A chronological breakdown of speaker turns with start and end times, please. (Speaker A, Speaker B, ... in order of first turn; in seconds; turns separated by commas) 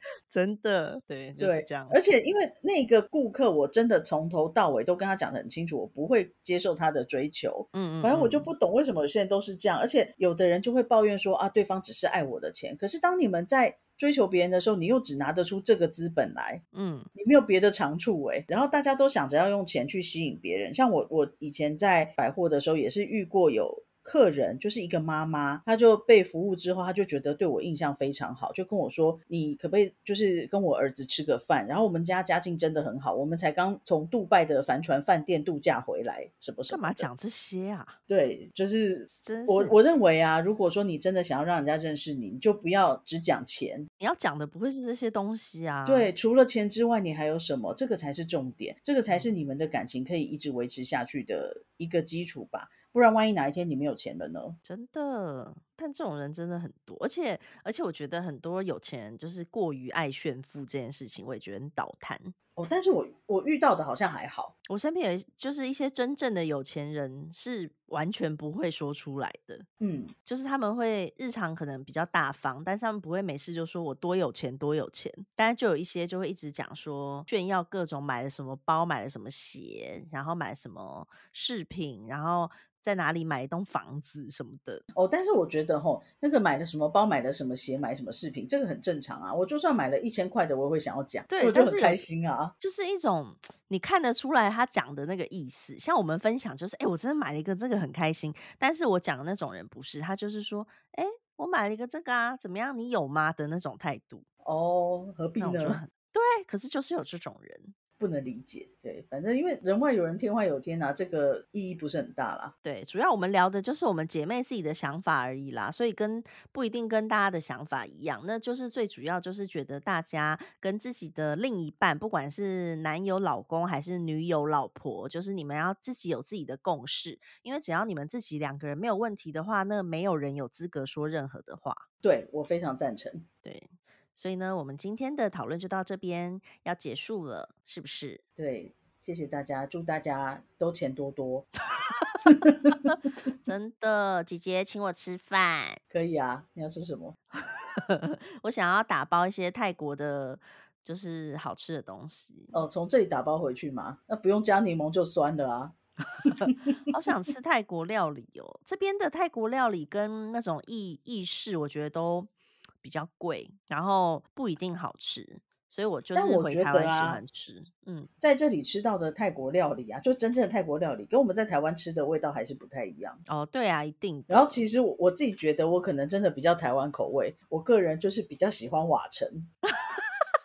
Speaker A: 0.3-2.0, Speaker B: 1.4-16.6, Speaker A: 7.7-8.5, Speaker A: 16.7-17.1, Speaker B: 17.1-37.1, Speaker A: 36.7-38.0, Speaker B: 38.1-43.9, Speaker A: 39.1-39.8, Speaker A: 44.0-46.1, Speaker B: 45.9-54.6, Speaker A: 54.6-62.3, Speaker B: 62.5-64.5, Speaker A: 64.7-69.7, Speaker B: 69.8-70.1, Speaker A: 70.2-84.8, Speaker B: 84.9-92.5, Speaker A: 91.3-92.1, Speaker A: 92.6-104.2, Speaker B: 104.4-105.8, Speaker A: 105.4-107.7, Speaker B: 108.0-112.5, Speaker A: 112.6-131.8, Speaker B: 132.0-133.2, Speaker A: 133.4-138.2, Speaker B: 138.4-141.5, Speaker A: 141.8-142.1, Speaker B: 142.2-142.9, Speaker A: 142.9-145.8, Speaker B: 145.9-147.2, Speaker A: 147.3-152.5, Speaker B: 152.5-156.8, Speaker A: 156.3-162.3, Speaker A: 162.8-168.1, Speaker B: 166.1-167.2, Speaker B: 168.2-173.2, Speaker A: 173.3-174.6, Speaker B: 174.3-179.5, Speaker A: 179.7-180.3